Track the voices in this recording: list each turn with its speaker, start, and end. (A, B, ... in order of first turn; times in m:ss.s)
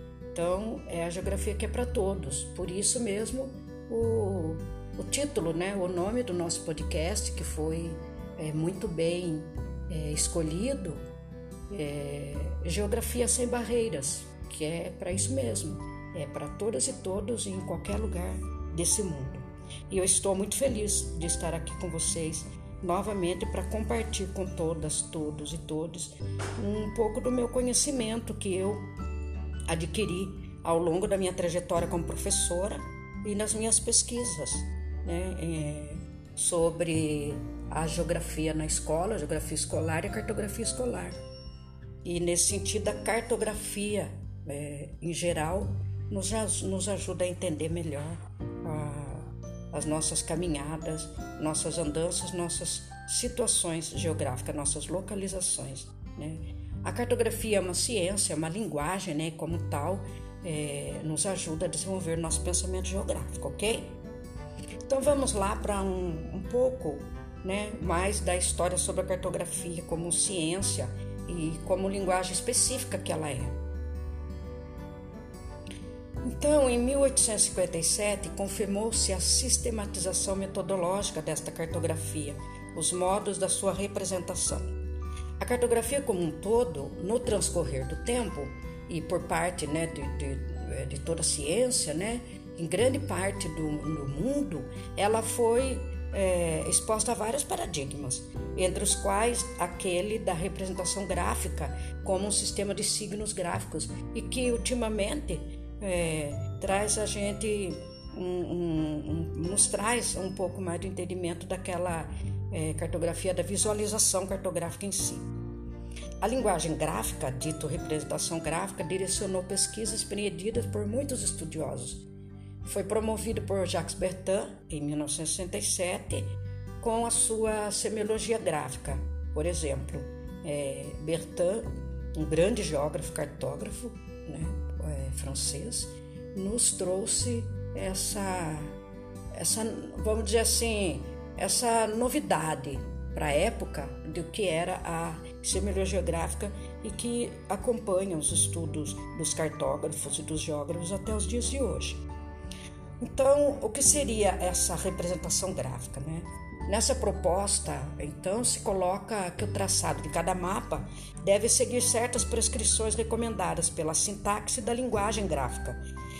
0:00.3-0:11.0 A
0:11.7-0:28.9 A
0:29.7-0:41.2 A
0:42.0-1:04.0 A
1:04.9-1:13.6 A
1:16.2-1:24.8 A
1:25.4-1:55.3 A
1:56.2-2:02.0 A
2:02.6-2:18.8 A
2:19.3-2:32.0 A
2:33.0-2:45.8 A